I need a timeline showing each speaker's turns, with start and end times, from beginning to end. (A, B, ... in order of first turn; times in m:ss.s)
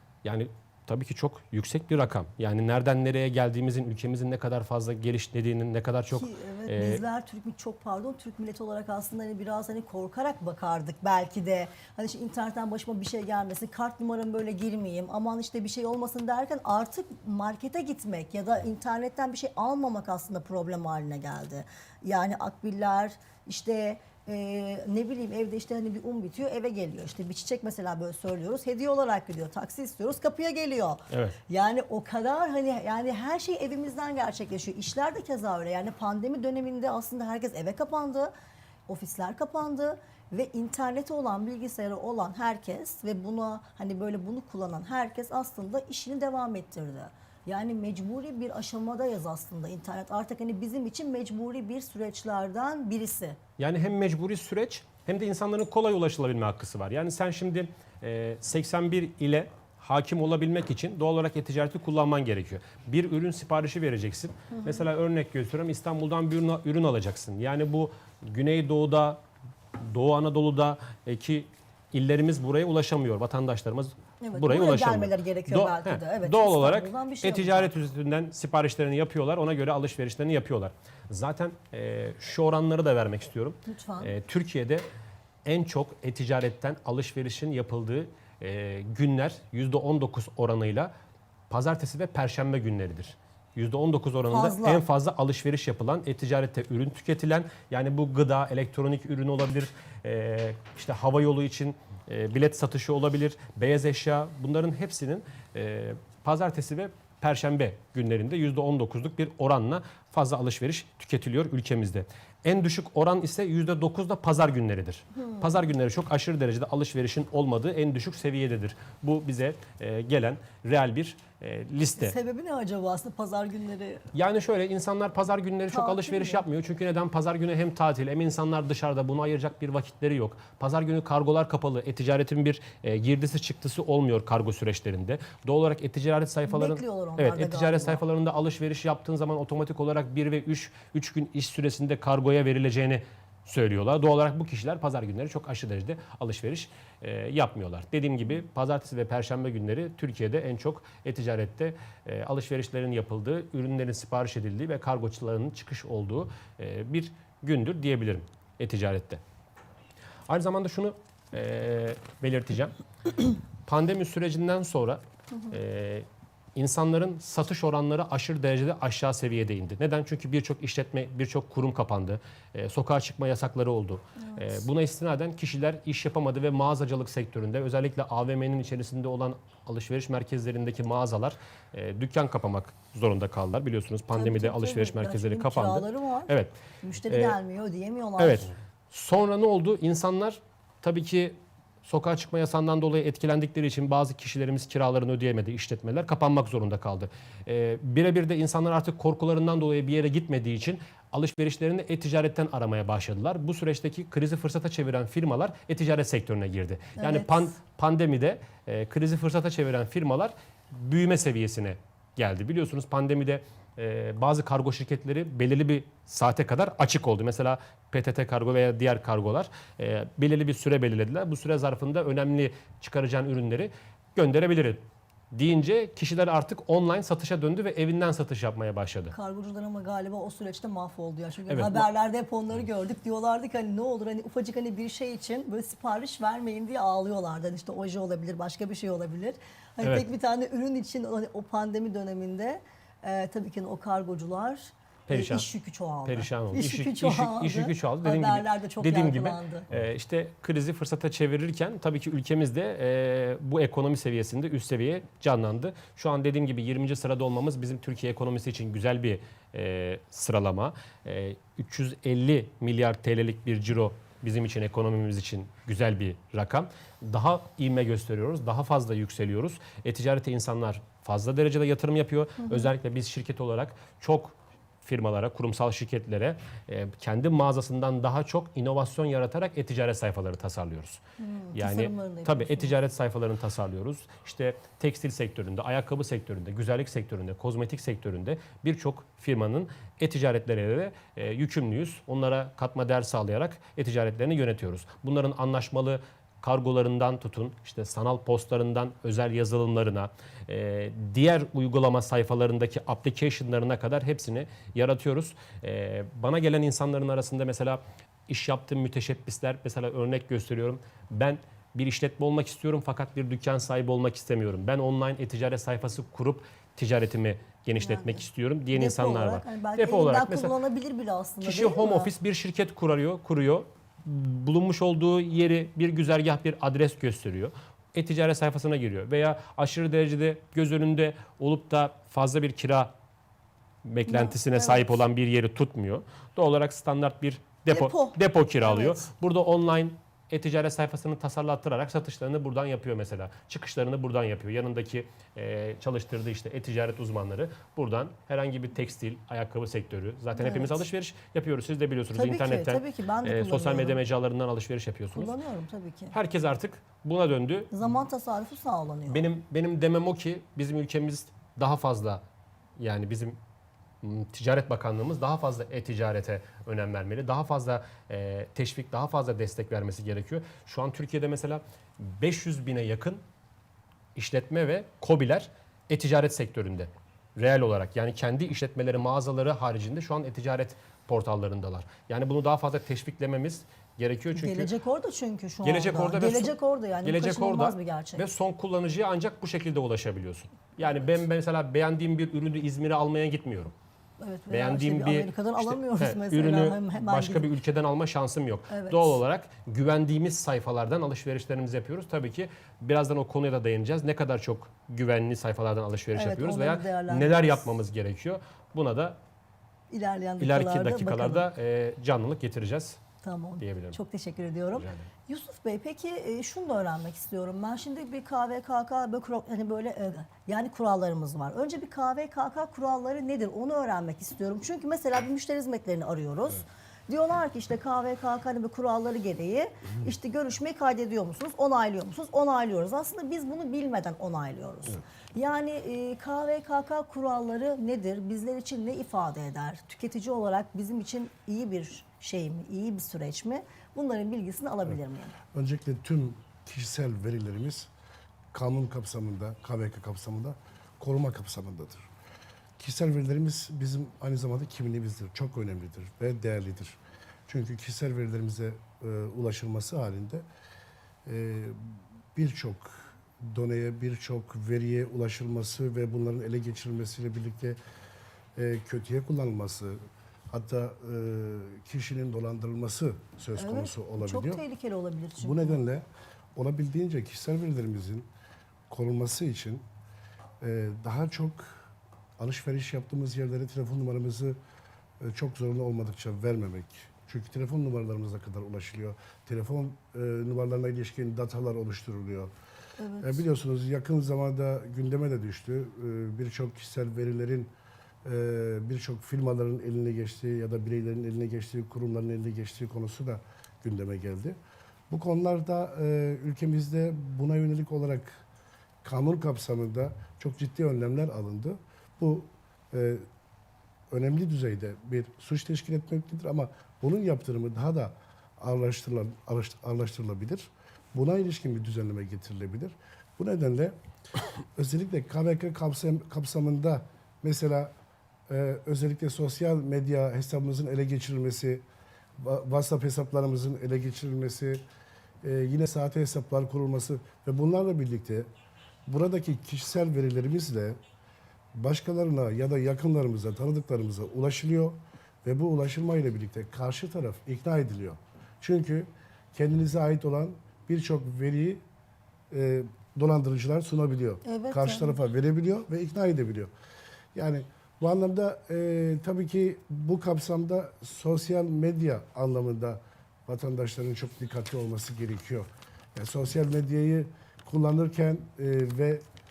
0:00.2-0:07.0 A
0:06.1-0:38.3 B
0:31.1-0:31.4 A
0:38.9-0:53.4 B
0:53.6-1:09.2 A
1:04.5-1:04.8 B
1:09.8-1:24.8 A
1:14.2-1:17.7 B
1:23.7-1:24.1 B
1:25.4-1:30.9 A
1:31.5-2:02.1 A
1:34.3-1:34.8 B
2:02.0-2:04.0 B
2:04.1-2:39.2 A
2:05.7-2:06.4 B
2:16.5-2:18.0 B
2:40.3-3:06.5 A
2:54.2-2:54.5 B
3:04.1-3:08.5 B
3:07.1-3:07.4 A
3:08.2-3:49.1 A
3:27.0-3:27.4 B
3:49.1-4:09.7 B
3:51.5-3:51.8 A
3:59.8-4:00.1 A
4:05.1-4:05.4 A
4:06.0-4:41.0 A
4:41.2-4:42.7 B
4:41.5-5:20.5 A
5:17.8-5:22.1 B
5:21.4-5:32.9 A
5:33.8-5:55.3 A
5:34.1-5:35.0 B
5:37.7-5:39.1 B
5:50.4-5:50.8 B
5:52.1-5:54.0 B
5:55.1-5:56.1 B
5:56.1-5:57.7 A
5:57.7-5:59.3 B
5:59.1-6:02.2 A
6:02.8-6:03.4 A
6:04.0-6:13.2 A
6:14.1-6:24.7 A
6:24.3-6:28.2 B
6:25.6-6:33.7 A
6:34.2-6:37.5 B
6:34.5-6:49.2 A
6:38.7-6:39.2 B
6:46.1-6:47.6 B
6:49.9-6:51.5 B
6:50.4-6:53.0 A
6:53.2-7:25.3 B
6:53.6-6:54.0 A
6:54.7-6:55.1 A
7:25.5-7:27.9 C
7:28.5-7:32.0 C
7:32.8-7:40.4 C
7:41.2-7:47.8 C
7:48.6-7:50.0 C
7:50.5-7:54.6 C
7:53.6-7:55.8 B
7:55.4-7:58.3 C
7:58.9-7:59.8 C
8:00.6-8:01.8 C
8:02.4-8:04.6 C
8:05.2-8:12.5 C
8:13.0-8:13.5 B
8:13.2-8:17.7 C
8:18.2-8:24.6 C
8:25.1-8:28.4 C
8:29.0-8:33.2 C
8:34.1-8:43.9 C
8:44.8-8:47.9 C
8:48.5-8:51.8 C
8:52.4-8:54.8 C
8:55.4-8:58.5 C
8:59.1-9:01.0 C
9:01.7-9:11.8 C
9:12.5-9:16.7 C
9:14.4-9:15.2 B
9:17.3-9:29.2 C